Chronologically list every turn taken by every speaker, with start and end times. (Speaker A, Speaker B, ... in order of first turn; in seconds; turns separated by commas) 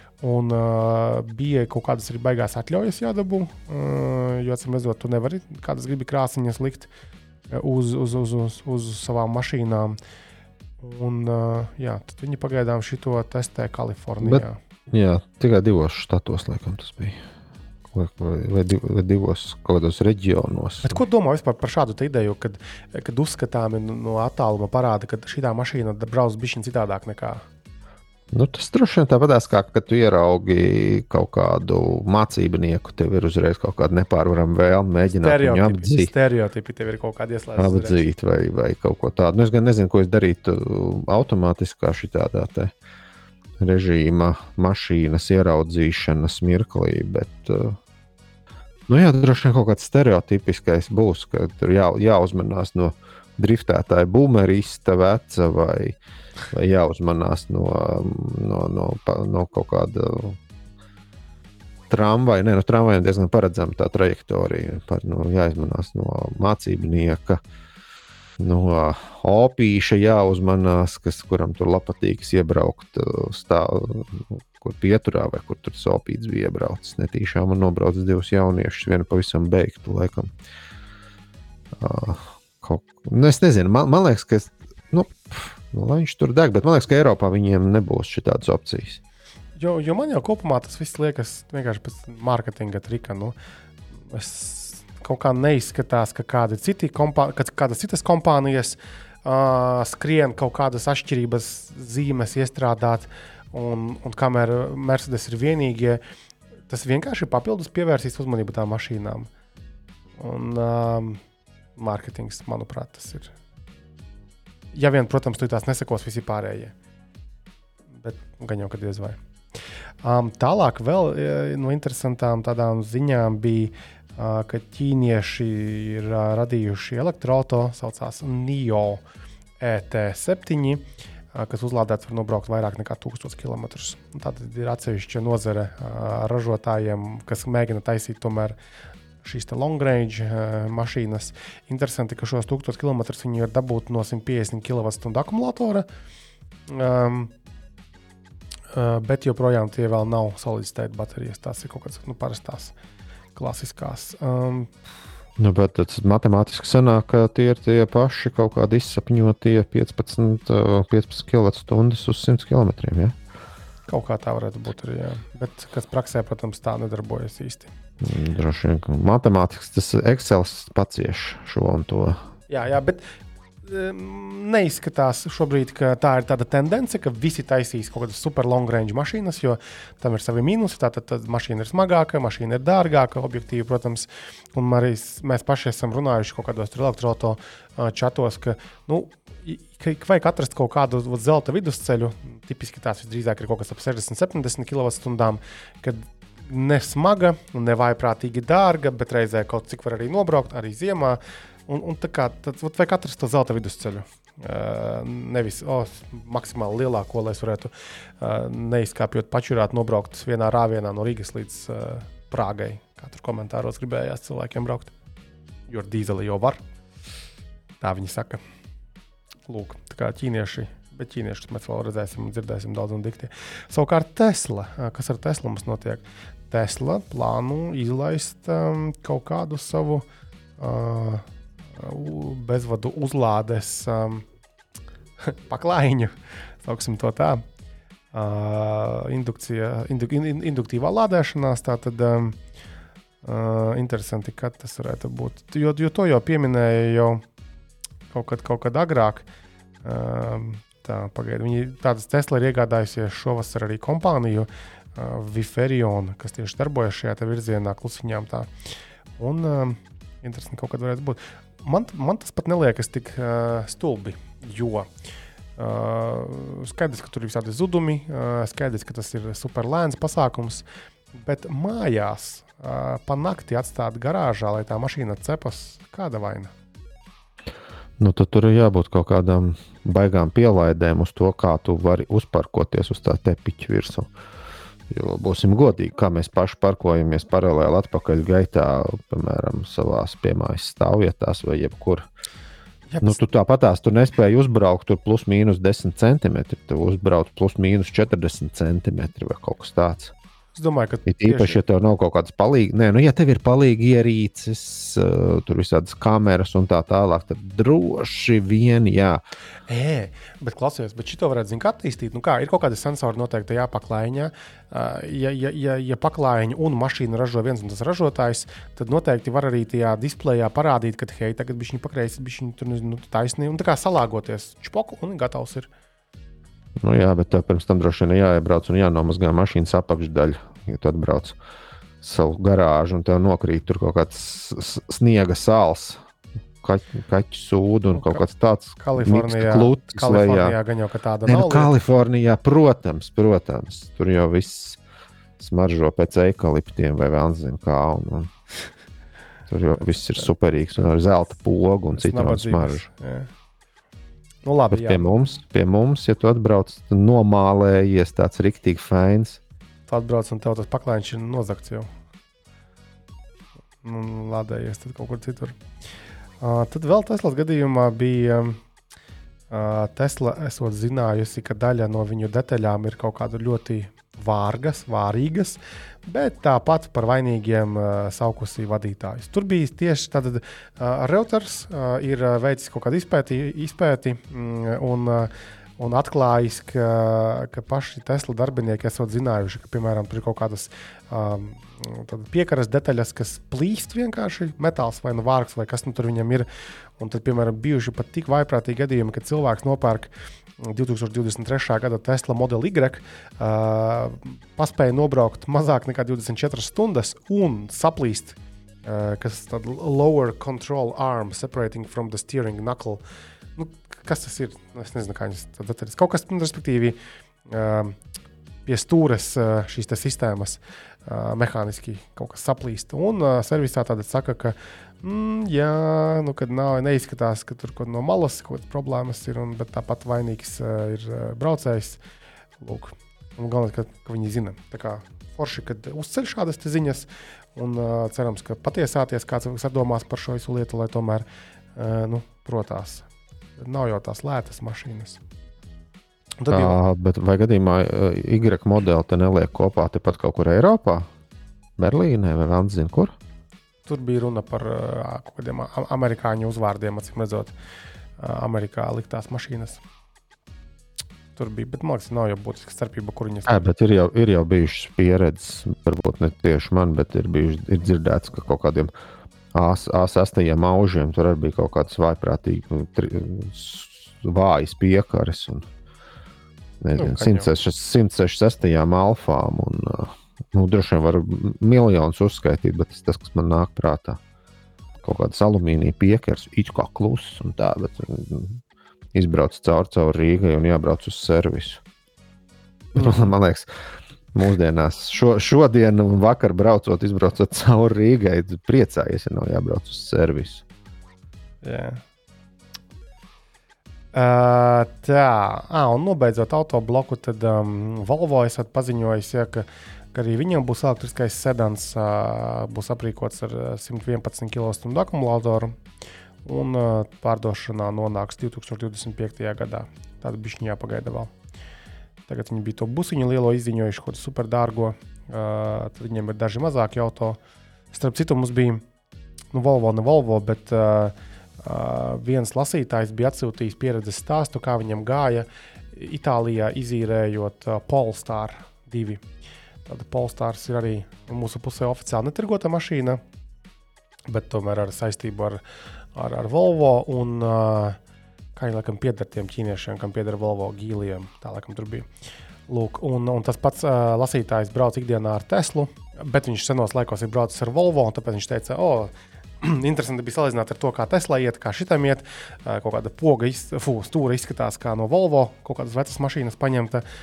Speaker A: 0.2-6.9, Speaker A: 7.5-10.0, Speaker A: 10.8-14.6, Speaker B: 14.2-17.2, Speaker B: 17.9-21.0, Speaker A: 20.8-27.4, Speaker B: 28.3-36.1, Speaker A: 35.1-38.0, Speaker B: 37.6-42.7, Speaker B: 43.6-47.8, Speaker B: 48.9-56.0, Speaker B: 56.5-60.4, Speaker B: 61.9-67.4, Speaker B: 68.4-80.3, Speaker B: 81.8-89.0, Speaker A: 89.6-93.3, Speaker A: 94.1-106.0, Speaker A: 106.7-109.3, Speaker A: 110.2-111.2, Speaker A: 111.8-113.3, Speaker A: 114.7-116.7, Speaker A: 118.0-119.2, Speaker A: 120.0-129.0, Speaker A: 129.6-138.6, Speaker A: 139.2-145.8, Speaker A: 146.7-147.3, Speaker A: 148.7-152.7, Speaker A: 153.3-154.7, Speaker B: 155.4-163.2, Speaker A: 163.9-167.7, Speaker B: 168.0-172.2, Speaker A: 172.5-173.1, Speaker A: 173.6-214.9, Speaker A: 215.7-216.6, Speaker A: 217.8-218.4, Speaker A: 219.5-230.0, Speaker A: 230.6-234.2, Speaker A: 235.2-237.4, Speaker A: 238.1-242.4, Speaker A: 243.2-247.2, Speaker A: 248.1-249.3, Speaker A: 249.8-258.5, Speaker A: 259.2-264.9, Speaker A: 265.6-276.5, Speaker B: 278.0-284.1, Speaker B: 284.9-292.0, Speaker A: 292.9-293.2, Speaker B: 293.0-300.1, Speaker A: 300.5-301.6, Speaker B: 301.1-309.2, Speaker A: 309.7-325.7, Speaker B: 326.8-331.4, Speaker B: 332.0-336.0, Speaker B: 336.6-340.6, Speaker A: 337.9-338.2, Speaker A: 338.8-341.7, Speaker B: 341.2-344.8, Speaker B: 345.4-348.3, Speaker B: 349.5-352.9, Speaker A: 351.9-353.3, Speaker A: 354.4-355.1, Speaker B: 354.7-359.4, Speaker A: 359.9-361.9, Speaker A: 363.8-365.6, Speaker A: 366.4-368.6, Speaker A: 369.5-396.5, Speaker A: 397.0-413.0, Speaker A: 413.6-417.9, Speaker A: 418.6-432.0, Speaker A: 432.6-443.1, Speaker A: 443.6-445.2, Speaker A: 446.4-446.8, Speaker B: 446.5-451.1, Speaker B: 451.8-453.1, Speaker A: 453.9-457.5, Speaker A: 458.2-459.8, Speaker A: 461.4-463.7, Speaker B: 463.5-468.9, Speaker B: 469.5-475.7, Speaker B: 476.8-484.2, Speaker A: 476.9-477.5, Speaker B: 485.0-488.6, Speaker B: 489.1-491.8, Speaker A: 492.9-493.3, Speaker B: 492.9-493.8, Speaker B: 494.3-500.6, Speaker A: 501.6-502.0, Speaker A: 504.1-515.7, Speaker A: 516.4-521.3, Speaker A: 522.3-527.4, Speaker A: 527.9-528.8, Speaker A: 529.5-539.2, Speaker A: 539.9-543.2, Speaker A: 544.3-545.6, Speaker A: 546.1-548.0, Speaker A: 548.5-552.1, Speaker A: 552.7-567.0